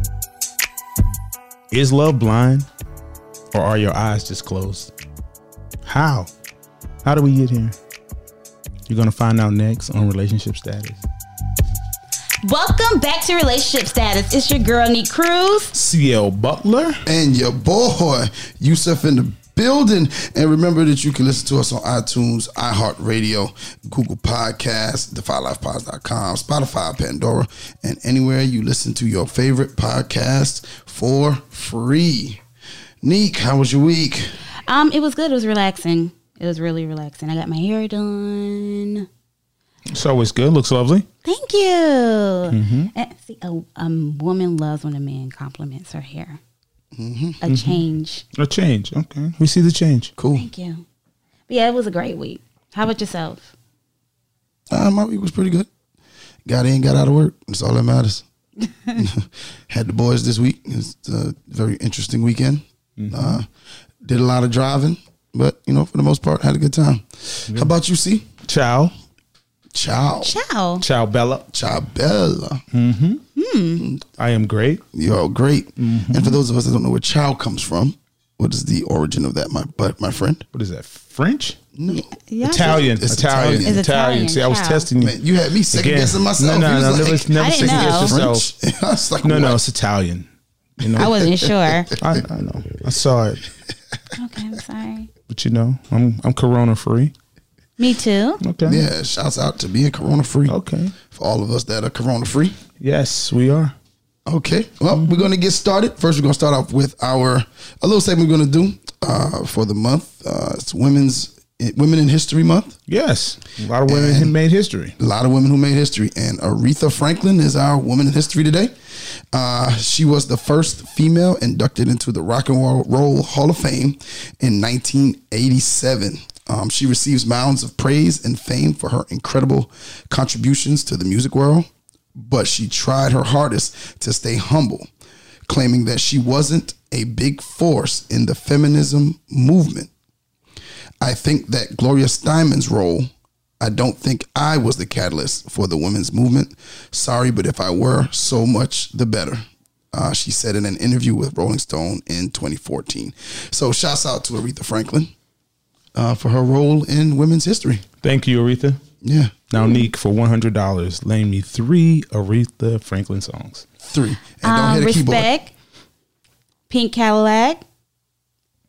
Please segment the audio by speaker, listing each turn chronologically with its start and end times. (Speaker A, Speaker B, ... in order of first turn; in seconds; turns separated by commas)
Speaker A: 1.7-2.6, Speaker A: 3.5-4.9, Speaker A: 5.8-6.3, Speaker A: 7.0-7.7, Speaker A: 8.9-11.0, Speaker B: 12.4-15.7, Speaker A: 15.7-17.0, Speaker C: 17.1-32.4, Speaker C: 33.0-34.3, Speaker B: 34.7-39.1, Speaker A: 39.9-41.0, Speaker B: 41.2-46.4, Speaker A: 42.5-42.9, Speaker C: 46.9-47.4, Speaker B: 47.4-48.2, Speaker A: 47.5-47.8, Speaker A: 48.3-50.1, Speaker C: 50.2-50.4, Speaker B: 50.3-50.8, Speaker B: 51.5-53.5, Speaker C: 54.7-55.7, Speaker C: 56.4-58.2, Speaker C: 59.0-63.5, Speaker A: 63.0-63.4, Speaker C: 64.0-68.3, Speaker A: 68.5-68.9, Speaker C: 69.7-70.3, Speaker B: 70.2-70.8, Speaker A: 70.8-71.5, Speaker C: 71.5-72.6, Speaker A: 72.7-73.2, Speaker B: 73.3-73.9, Speaker A: 74.2-74.8, Speaker C: 74.9-80.4, Speaker A: 75.8-76.4, Speaker A: 80.5-81.6, Speaker C: 81.8-83.8, Speaker B: 82.3-82.9, Speaker A: 82.5-85.2, Speaker B: 83.4-84.9, Speaker C: 85.0-89.6, Speaker A: 85.7-88.4, Speaker B: 87.3-88.2, Speaker A: 89.2-90.3, Speaker A: 90.8-91.1, Speaker C: 90.8-92.2, Speaker B: 91.0-91.9, Speaker A: 92.0-93.4, Speaker B: 94.1-95.1, Speaker A: 95.3-97.1, Speaker B: 97.8-98.4, Speaker A: 98.4-98.8, Speaker C: 98.6-100.5, Speaker A: 100.5-100.9, Speaker C: 101.1-102.6, Speaker A: 102.8-103.7, Speaker C: 104.2-112.8, Speaker A: 112.9-114.9, Speaker C: 113.8-114.3, Speaker C: 115.0-118.7, Speaker C: 119.3-134.9, Speaker C: 135.5-139.9, Speaker C: 141.0-155.1, Speaker C: 155.9-157.8, Speaker A: 158.0-158.8, Speaker C: 159.0-159.7, Speaker A: 159.5-163.7, Speaker C: 163.8-165.3, Speaker B: 164.4-165.5, Speaker B: 166.7-167.6